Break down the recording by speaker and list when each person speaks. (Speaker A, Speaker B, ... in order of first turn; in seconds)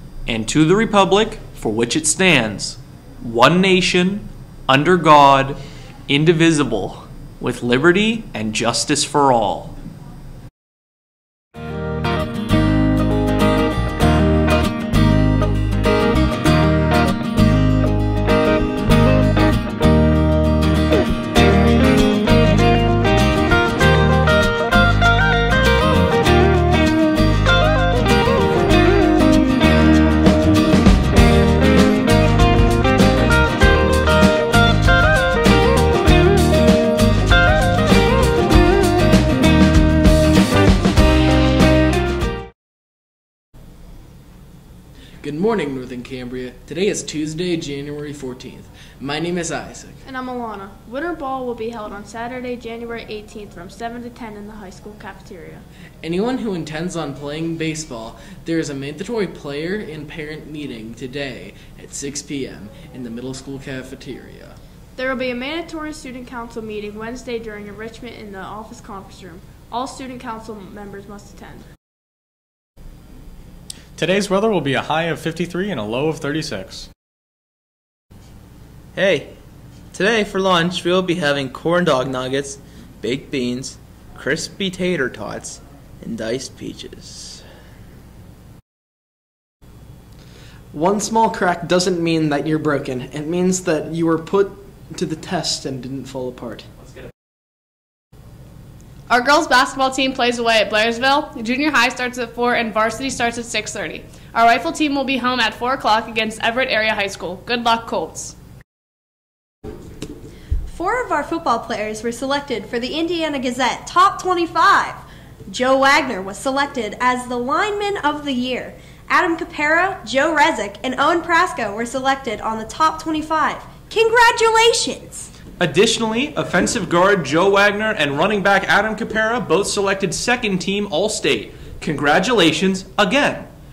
Speaker A: 0.3-9.7, 125.6-133.5
Speaker B: 45.2-50.0, 56.0-64.6
Speaker C: 50.1-55.6, 65.0-71.7
Speaker D: 74.0-76.9
Speaker E: 79.0-79.3, 79.9-87.4
Speaker F: 90.7-96.7
Speaker G: 99.1-108.3
Speaker H: 110.7-125.3